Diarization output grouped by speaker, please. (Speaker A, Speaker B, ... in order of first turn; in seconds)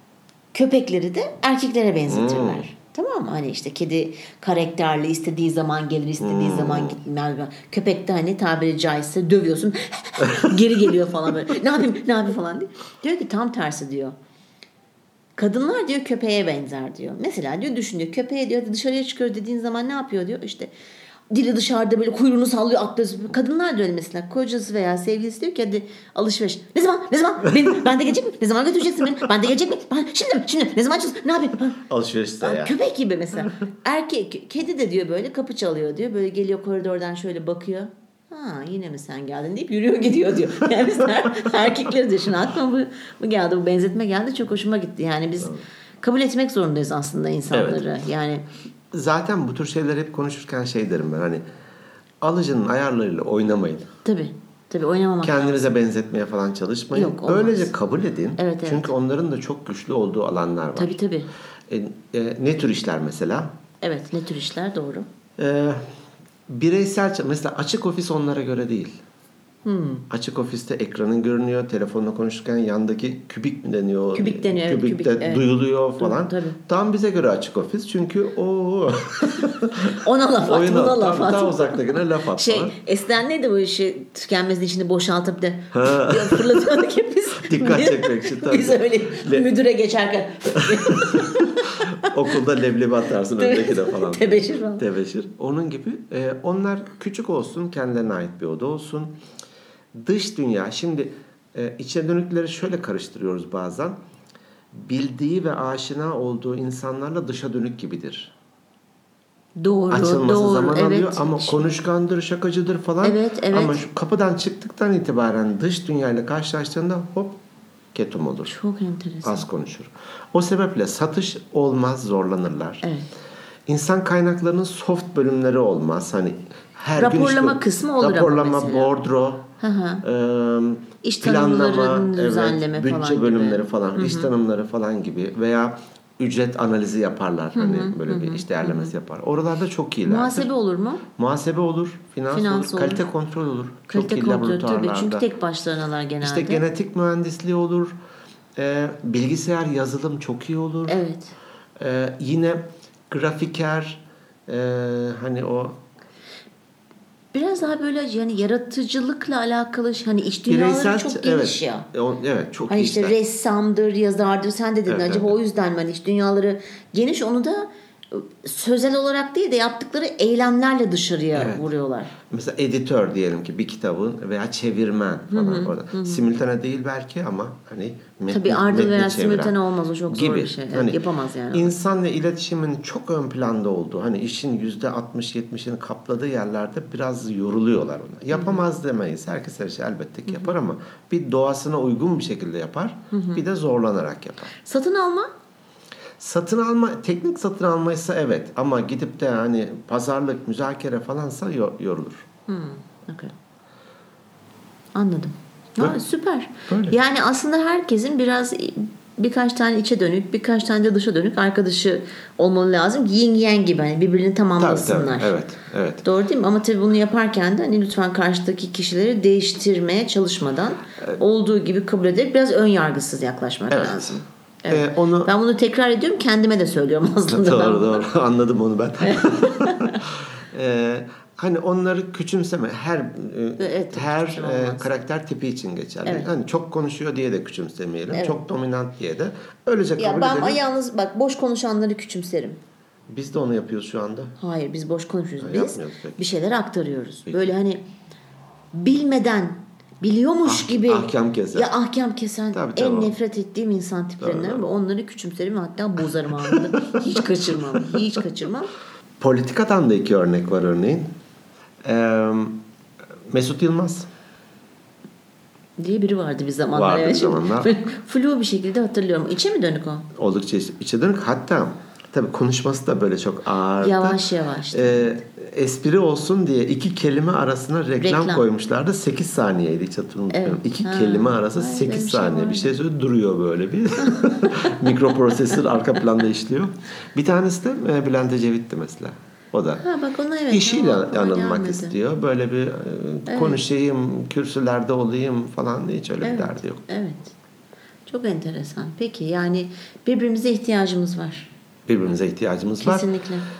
Speaker A: 0.5-14.1, 15.4-20.7, 21.3-31.8, 32.4-48.5, 54.0-55.4, 56.9-57.7, 58.4-58.9, 60.8-61.3, 63.8-65.1, 69.6-70.1, 74.1-75.4, 76.0-76.6, 79.8-92.4, 93.3-94.9, 109.6-111.7, 113.0-113.8, 118.5-119.5, 122.8-123.1, 127.0-128.9, 129.6-130.0, 131.0-134.3, 137.5-138.9, 140.1-141.0, 142.3-143.0, 143.9-146.6, 150.9-151.3, 157.3-161.9, 162.7-172.1, 175.3-176.3, 178.3-181.7, 188.3-188.6, 190.3-190.5, 193.1-193.4, 194.6-195.3, 202.5-203.3, 204.9-215.3, 216.0-228.0, 229.0-230.0, 233.6-235.0, 240.0-242.6, 244.4-247.9, 248.7-258.7, 265.8-270.1, 273.8-275.2, 278.0-278.4, 280.3-282.8, 284.0-284.8, 289.8-291.9, 293.3-293.6, 296.2-297.3, 298.1-301.5, 302.8-303.5
Speaker B: 2.1-2.6, 6.2-7.0, 31.9-32.8, 47.5-47.8, 48.9-51.4, 52.2-53.9, 55.2-61.0, 61.7-63.5, 65.4-65.8, 66.5-69.0, 70.1-82.8, 85.7-86.7, 87.4-89.5, 90.6-99.2, 99.9-104.0, 104.7-108.3, 109.9-117.4, 117.9-118.5, 119.2-122.8, 123.7-129.5, 130.0-140.5, 141.2-145.2, 146.2-147.9, 148.6-151.0, 151.8-155.8, 160.5-163.2, 164.9-165.4, 171.3-179.6, 180.1-194.5, 196.2-202.2, 206.7-207.0, 214.6-216.0, 223.7-225.3, 227.3-240.6, 243.1-244.3, 245.4-246.2, 247.3-247.5, 250.4-251.7, 252.5-253.1, 254.2-254.6, 256.5-257.0, 259.2-261.1, 261.8-262.6, 263.3-264.1, 266.7-267.7, 270.1-289.8, 290.5-296.8, 301.9-303.1